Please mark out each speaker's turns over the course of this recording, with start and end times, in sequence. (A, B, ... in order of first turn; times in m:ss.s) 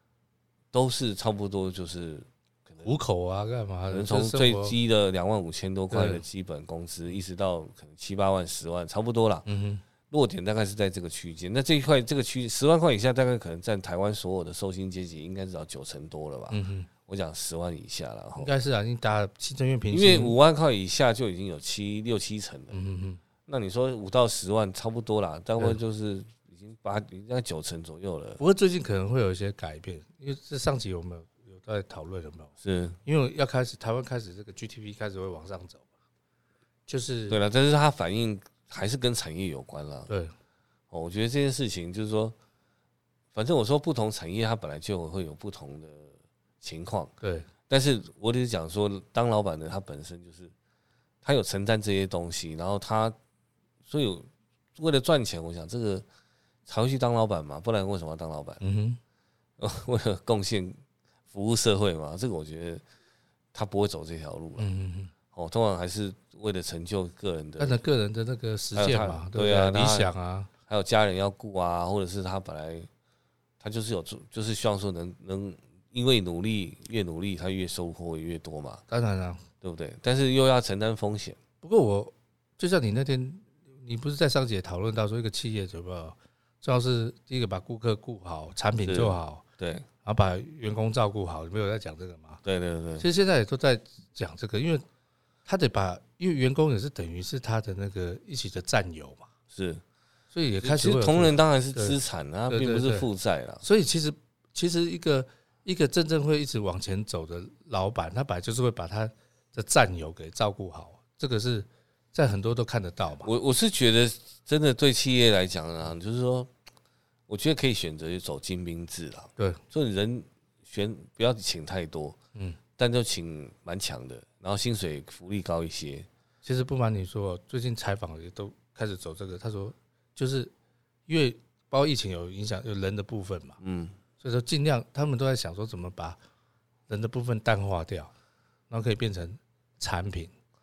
0:00.7-0:02.9 A
0:02.8-0:04.7 B
0:03.9-0:09.4 A
0:05.9-0:06.2 B
0:09.4-0:09.8 B
0:10.1-0:18.5 A
0:16.5-0:16.9 B
0:18.4-0:20.4 B
0:19.9-0:22.8 A
0:22.7-0:23.2 B
0:23.5-0:28.4 A
0:28.4-0:32.5 B
0:32.6-0:33.0 A
0:33.0-0:35.8 B
0:36.9-0:37.4 B
0:37.3-0:40.1 A
0:40.1-0:40.3 B
0:40.9-0:42.3 A
0:43.3-0:47.1 A
0:47.2-0:47.5 B
0:47.7-0:50.5 A
0:51.2-0:53.2 A
0:53.8-0:56.0 A
0:56.6-0:58.6 A
0:58.6-0:59.0 B
0:59.6-1:00.8 A
1:01.3-1:02.8 A
1:03.5-1:04.7 A
1:04.6-1:05.1 B
1:05.3-1:07.8 A
1:07.6-1:10.5 B
1:08.7-1:10.1 A
1:10.7-1:12.9 A
1:13.6-1:18.8 A
1:18.9-1:19.4 B
1:19.6-1:21.4 A
1:21.6-1:29.4 B
1:28.8-1:29.8 A
1:30.0-1:32.4 B
1:32.4-1:33.0 A
1:33.0-1:34.8 B
1:35.4-1:39.3 B
1:39.5-1:39.8 A
1:40.3-1:42.0 B
1:40.6-1:43.6 A
1:42.5-1:43.1 B
1:43.6-1:53.3 B
1:53.2-1:56.5 A
1:57.3-2:02.2 A
2:02.8-2:06.1 A
2:06.4-2:10.5 B
2:11.1-2:13.6 B
2:13.6-2:14.0 A
2:14.2-2:16.2 B
2:16.9-2:18.1 B
2:18.7-2:20.3 B